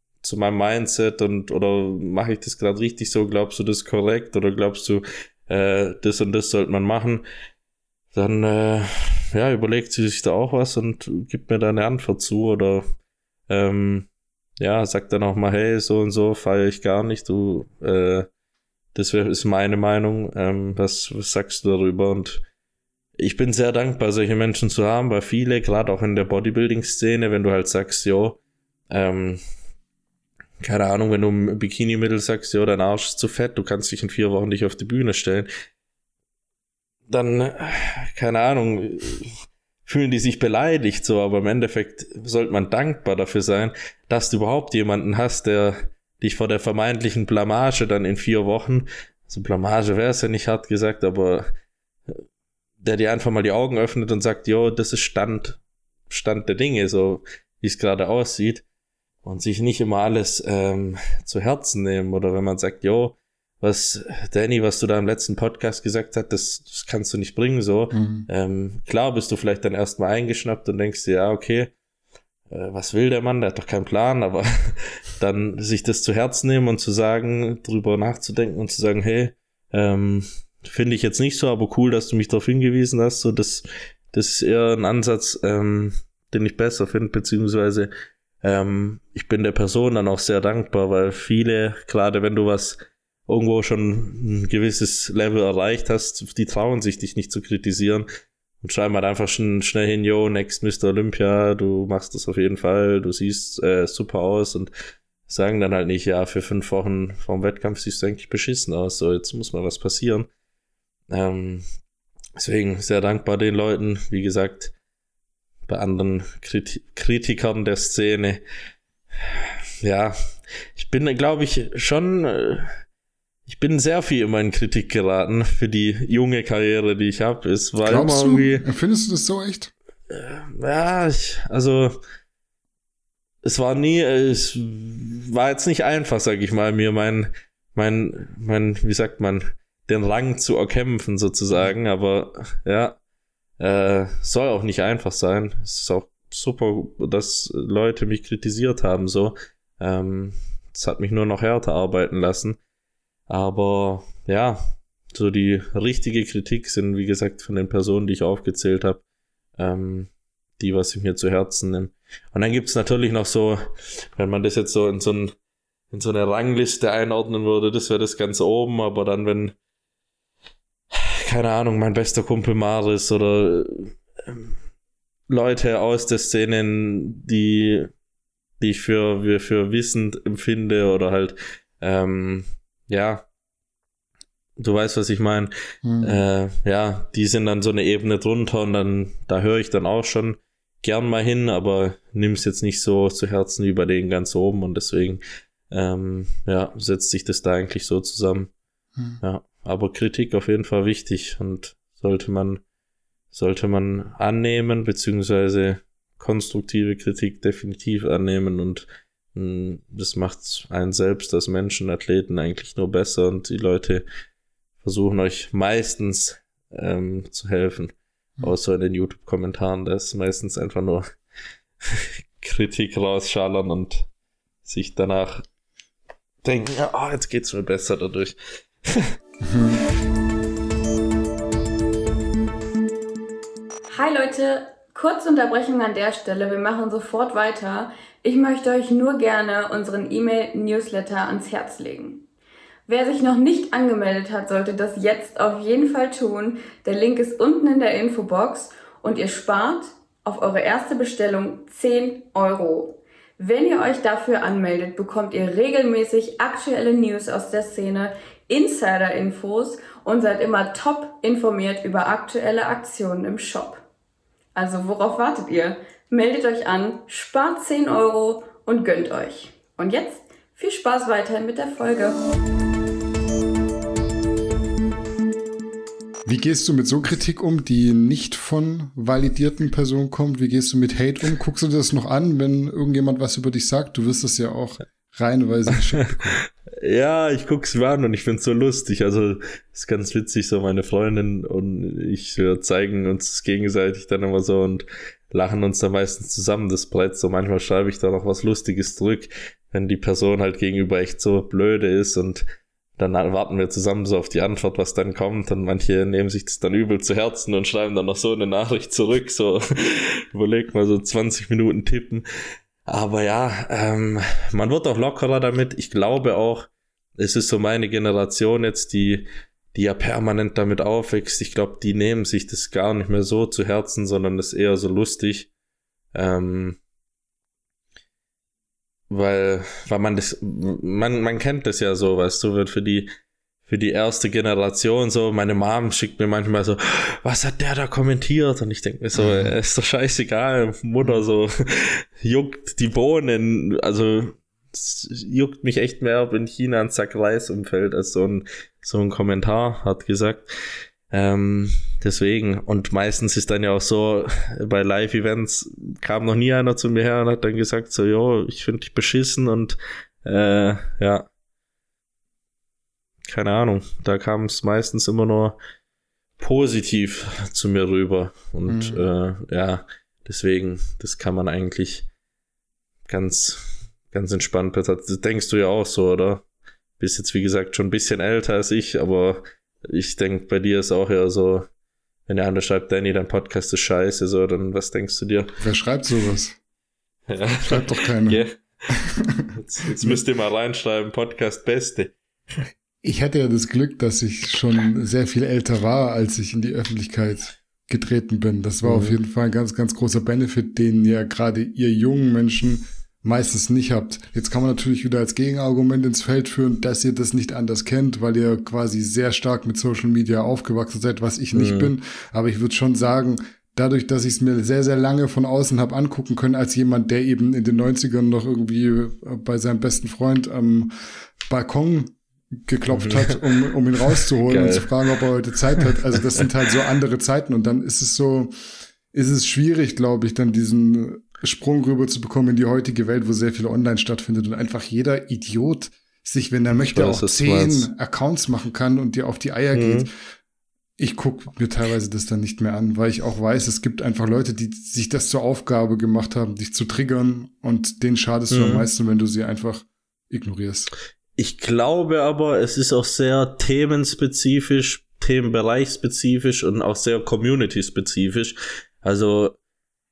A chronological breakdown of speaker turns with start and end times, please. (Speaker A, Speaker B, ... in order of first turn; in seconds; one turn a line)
Speaker A: 0.2-7.2
Speaker A: 8.1-12.8
Speaker A: 13.5-14.1
Speaker A: 14.6-18.3
Speaker A: 18.9-22.4
Speaker A: 23.2-28.4
Speaker A: 28.9-29.4
Speaker A: 30.6-35.5
Speaker A: 37.1-39.3
Speaker A: 39.9-51.5
Speaker A: 52.8-58.6
Speaker A: 59.2-71.7
Speaker B: 67.9-68.3
Speaker A: 72.5-87.9
Speaker A: 88.4-98.1
Speaker A: 98.6-104.7
Speaker A: 105.3-110.3
Speaker A: 111.1-111.6
Speaker A: 112.4-114.7
Speaker A: 115.7-118.4
Speaker A: 119.2-120.2
Speaker A: 120.7-122.8
Speaker A: 123.5-128.6
Speaker B: 127.8-129.7
Speaker A: 130.1-132.0
Speaker A: 133.4-143.0
Speaker A: 143.6-152.6
Speaker A: 153.3-154.6
Speaker A: 155.1-159.0
Speaker A: 159.6-165.3
Speaker A: 165.9-169.5
Speaker A: 170.9-174.5
Speaker A: 175.3-177.9
Speaker A: 178.6-183.3
Speaker A: 184.6-185.5
Speaker B: 185.8-186.2
Speaker A: 186.0-198.5
Speaker A: 199.2-202.6
Speaker A: 203.3-214.1
Speaker A: 214.8-221.1
Speaker A: 221.9-224.1
Speaker A: 224.6-225.4
Speaker A: 226.4-228.3
Speaker B: 229.4-229.8
Speaker C: 233.9-242.2
Speaker C: 242.9-263.8
Speaker C: 264.5-272.2
Speaker B: 276.2-286.4
Speaker A: 286.8-302.4
Speaker A: 303.0-312.2
Speaker A: 312.9-325.5
Speaker A: 326.1-326.8
Speaker A: 329.1-333.1
Speaker A: 333.6-350.5
Speaker B: 339.1-339.5
Speaker A: 351.1-361.3
Speaker A: 363.3-365.6
Speaker A: 366.4-372.1
Speaker B: 368.7-369.0
Speaker A: 373.1-376.4
Speaker A: 377.0-381.7
Speaker A: 382.3-385.5
Speaker B: 385.6-386.6
Speaker A: 387.3-388.5
Speaker B: 387.6-389.5
Speaker A: 389.5-392.1
Speaker B: 393.0-420.9
Speaker A: 398.8-399.1
Speaker A: 411.5-411.9
Speaker B: 421.5-428.5
Speaker A: 422.9-423.4
Speaker A: 424.0-425.1
Speaker B: 429.1-440.1
Speaker A: 436.9-437.9
Speaker A: 439.7-440.1
Speaker B: 441.0-450.9
Speaker A: 448.5-448.9
Speaker A: 451.4-459.6